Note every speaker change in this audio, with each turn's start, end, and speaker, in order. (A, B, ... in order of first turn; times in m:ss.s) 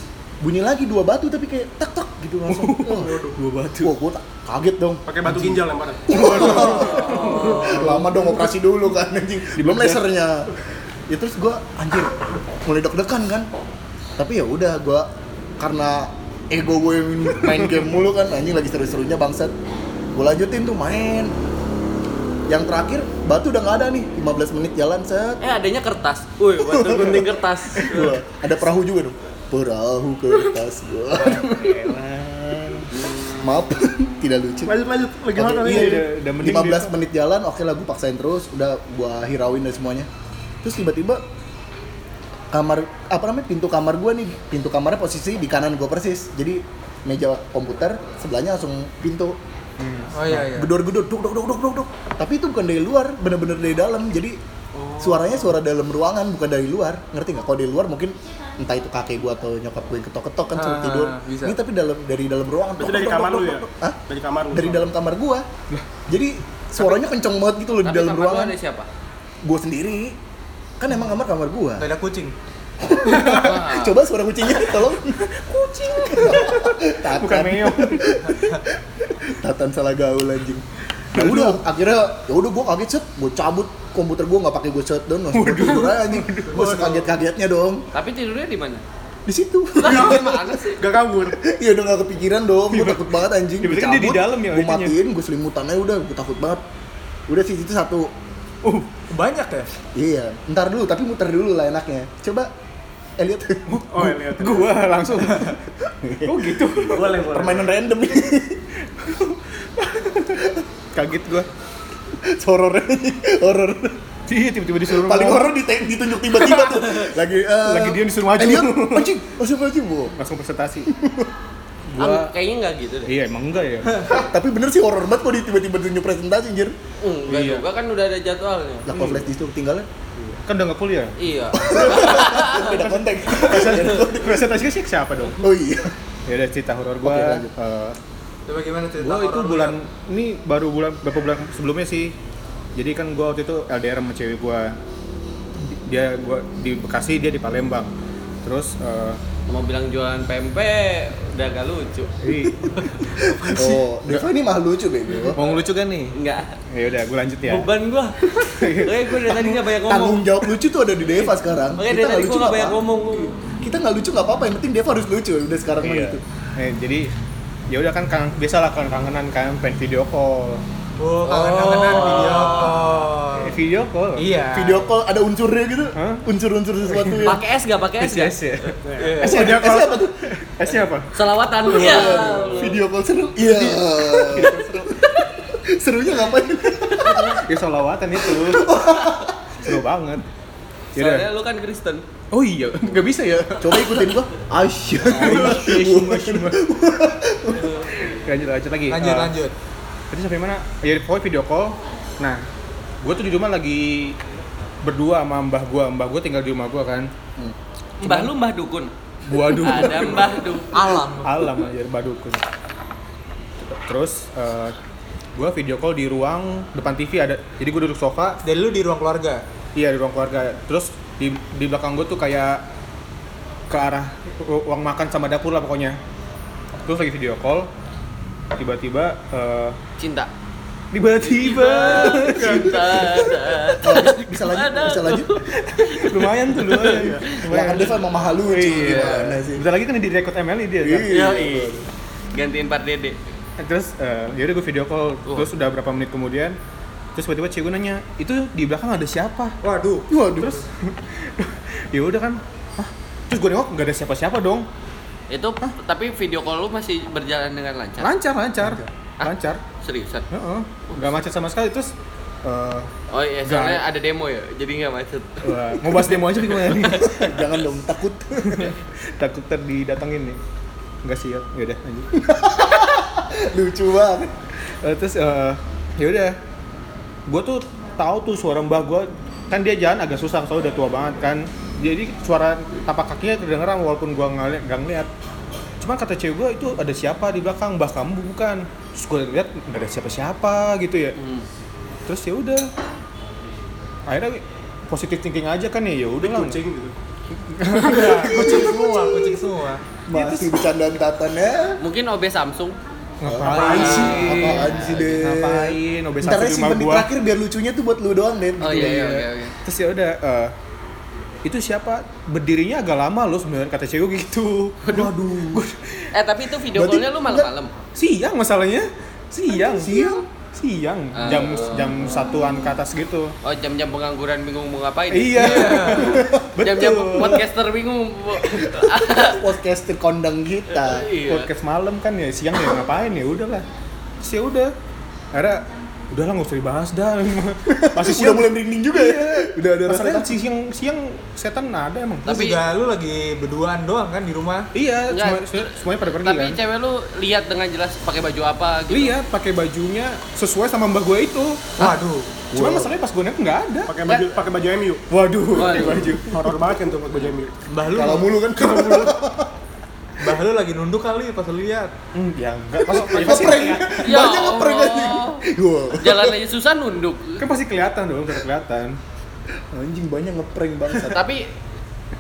0:00.4-0:03.2 A
0:02.5-0:03.9 B
0:03.8-0:10.5 A
0:05.1-0:07.8 C
0:06.8-0:07.8 D
0:07.0-0:08.5 B
0:09.6-0:10.0 B
0:11.1-0:13.5 A
0:14.2-0:15.1 A
0:15.6-0:19.5 A
0:20.1-0:21.4 A
0:22.5-0:25.4 A
0:25.4-0:28.2 D
0:26.6-0:31.6 A
0:31.1-0:32.8 B
0:33.0-0:33.4 D
0:33.3-0:34.8 A
0:34.7-0:36.0 C
0:35.4-0:40.1 A
0:35.6-0:36.9 B
0:40.6-0:41.2 A
0:42.5-0:49.4 A
0:49.8-0:50.1 B
0:50.1-0:50.7 E
0:50.3-0:54.4 A
0:54.8-0:55.5 E
0:55.0-1:04.0 A
1:00.6-1:01.6 E
1:02.8-1:04.9 C
1:04.5-1:05.5 A
1:06.1-1:08.6 A
1:07.8-1:08.9 D
1:09.4-1:10.2 A
1:10.8-1:11.9 A
1:11.8-1:12.3 E
1:12.8-1:27.9 A
1:13.2-1:14.0 D
1:15.7-1:16.5 E
1:16.0-1:18.1 B
1:21.2-1:21.6 B
1:25.3-1:27.0 B
1:27.9-1:28.8 D
1:29.3-1:30.4 A
1:29.8-1:30.8 D
1:29.8-1:31.4 C
1:31.4-1:36.6 A
1:32.7-1:35.0 B
1:37.3-1:38.1 A
1:39.1-1:39.7 E
1:40.0-1:42.5 A
1:43.2-1:43.8 A
1:43.7-1:45.6 B
1:43.9-1:44.8 C
1:46.0-1:48.7 A
1:46.2-1:47.1 B
1:46.8-1:47.7 C
1:49.0-1:51.5 B
1:52.2-1:54.0 A
1:54.3-1:55.6 B
1:54.9-2:00.2 A
1:56.3-1:56.7 B
1:57.6-1:59.1 B
2:00.2-2:00.9 B
2:00.9-2:01.3 A
2:01.9-2:02.3 B
2:02.0-2:03.1 D
2:03.1-2:04.0 B
2:04.0-2:06.8 A
2:07.0-2:08.9 D
2:07.3-2:07.7 B
2:08.9-2:09.9 A
2:08.9-2:09.2 B
2:10.2-2:11.2 B
2:11.2-2:12.8 D
2:11.5-2:14.5 A
2:12.7-2:15.4 B
2:15.4-2:16.0 A
2:16.3-2:18.0 B
2:17.0-2:17.5 A
2:18.5-2:19.8 E
2:19.0-2:22.1 B
2:22.8-2:24.8 B
2:25.7-2:27.9 B
2:28.4-2:29.2 B
2:29.5-2:32.2 D
2:32.2-2:33.1 B
2:32.7-2:33.8 D
2:33.2-2:35.4 A
2:35.2-2:35.6 D
2:35.3-2:36.2 B
2:36.2-2:36.6 D
2:36.7-2:37.7 B
2:37.5-2:40.5 D
2:38.5-2:39.3 B
2:39.6-2:42.8 A
2:41.1-2:43.4 D
2:43.6-2:46.2 A
2:45.8-2:47.1 B
2:47.7-2:50.6 B
2:51.0-2:53.6 E
2:51.3-2:53.0 D
2:53.4-2:54.4 B
2:54.2-2:54.8 E
2:54.5-2:57.4 A
2:56.0-2:56.3 B
2:57.0-2:57.4 B
2:57.2-2:59.7 D
2:58.0-3:01.1 B
2:58.8-2:59.7 C
2:59.2-3:00.2 A
3:01.1-3:02.8 D
3:01.7-3:02.7 B
3:01.7-3:04.6 A
3:03.5-3:03.8 B
3:04.0-3:05.3 D
3:04.3-3:04.9 B
3:05.5-3:07.4 A
3:07.0-3:07.3 D
3:07.0-3:08.8 B
3:08.3-3:09.8 A
3:09.6-3:10.2 B
3:11.0-3:11.3 B
3:11.0-3:12.1 D
3:12.3-3:13.9 B
3:13.6-3:17.8 A
3:15.1-3:16.6 B
3:17.6-3:17.9 D
3:18.0-3:19.4 B
3:18.9-3:19.5 E
3:20.1-3:22.4 B
3:23.0-3:24.2 B
3:24.8-3:27.1 B
3:28.0-3:30.7 D
3:29.3-3:32.4 B
3:30.7-3:31.4 E
3:33.7-3:34.8 B
3:35.4-3:38.4 B
3:38.4-3:39.4 E
3:39.8-3:42.6 B
3:43.7-3:46.0 B
3:46.8-3:47.7 B
3:48.5-3:49.8 B
3:50.0-3:50.3 D
3:50.9-3:53.9 B
3:51.2-3:57.5 D
3:53.8-3:55.3 A
3:55.5-4:01.2 B
3:57.5-3:59.6 A
3:58.8-3:59.3 D
4:00.8-4:01.8 A
4:01.1-4:01.8 D
4:02.3-4:03.2 D
4:03.6-4:06.6 B
4:07.2-4:09.6 B
4:09.6-4:10.1 E
4:10.1-4:10.6 A
4:10.3-4:14.7 B
4:15.3-4:18.1 D
4:18.0-4:19.6 B
4:19.2-4:20.3 D
4:20.3-4:21.9 B
4:22.4-4:22.9 B
4:23.1-4:26.0 D
4:23.4-4:23.8 B
4:25.4-4:27.2 B
4:26.8-4:28.8 A
4:26.8-4:27.2 D
4:28.4-4:30.4 B
4:31.0-4:32.1 B
4:32.1-4:34.3 A
4:34.8-4:36.4 B
4:37.3-4:45.1 B
4:45.8-4:51.2 B
4:51.2-4:51.5 D
4:52.1-4:52.7 B
4:54.1-4:56.6 B
4:56.2-4:57.0 C
4:57.5-4:58.5 B
4:57.7-4:59.8 E
4:58.0-4:59.5 A
5:00.1-5:01.8 A
5:00.1-5:00.5 B
5:01.8-5:02.8 D
5:03.2-5:07.1 B
5:03.3-5:09.2 A
5:03.5-5:04.5 E
5:03.5-5:05.2 D
5:08.6-5:09.6 D
5:08.8-5:09.1 B
5:09.6-5:10.5 B
5:11.4-5:16.1 B
5:14.9-5:15.6 A
5:16.1-5:17.7 D
5:16.8-5:17.5 A
5:18.0-5:20.0 B
5:19.7-5:20.2 A
5:20.5-5:23.4 B
5:21.2-5:21.9 D
5:23.4-5:29.5 D
5:25.1-5:27.5 B
5:25.4-5:26.2 E
5:26.2-5:26.4 A
5:29.1-5:31.1 A
5:30.8-5:31.5 D
5:31.2-5:33.6 B
5:34.2-5:34.7 B
5:35.3-5:42.4 B
5:37.7-5:40.4 A
5:42.3-5:42.6 D
5:42.3-5:44.7 E
5:44.8-5:46.6 B
5:45.1-5:49.2 D
5:48.9-5:52.0 B
5:51.8-5:52.3 E
5:52.5-5:52.9 A
5:52.5-5:54.3 B
5:53.9-5:55.0 C
5:55.1-5:56.6 B
5:55.5-5:56.2 D
5:56.2-5:57.5 C
5:57.7-5:59.1 E
5:57.8-5:59.5 A
6:00.2-6:01.9 E
6:02.2-6:04.1 B
6:02.9-6:06.4 A
6:04.0-6:07.4 D
6:07.4-6:09.0 B
6:09.7-6:11.3 A
6:11.0-6:11.5 D